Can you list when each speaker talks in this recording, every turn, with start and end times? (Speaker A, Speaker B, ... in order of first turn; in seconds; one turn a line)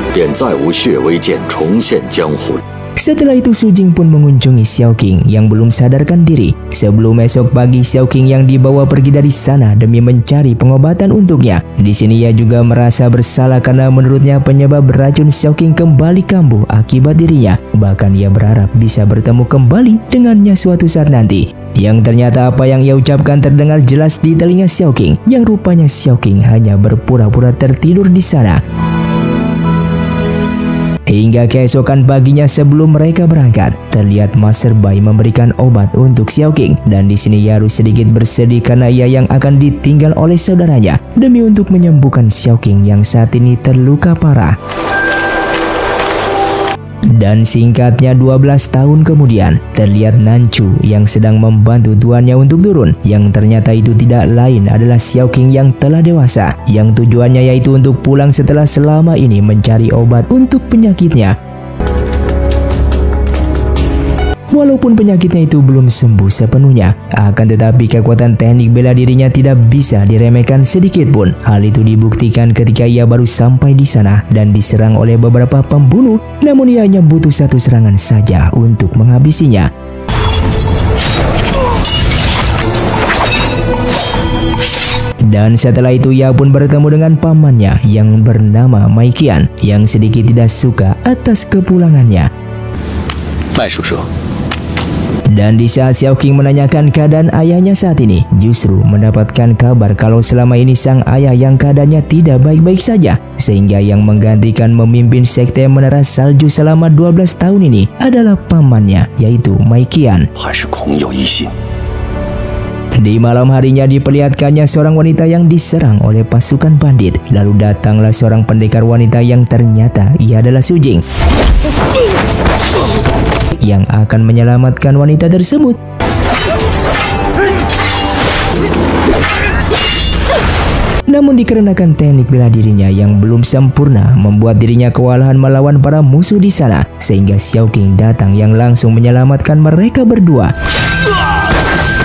Speaker A: 0.1-2.6
Speaker B: 3.0-28.6
Speaker B: 31.1-44.6
Speaker B: 47.1-61.4
Speaker B: 64.5-79.7
Speaker B: 85.3-92.3
Speaker A: 93.5-94.1
Speaker B: 95.3-110.3
Speaker A: 110.3-111.5
Speaker B: 113.0-121.0
Speaker B: 123.6-125.8
Speaker B: 131.1-140.5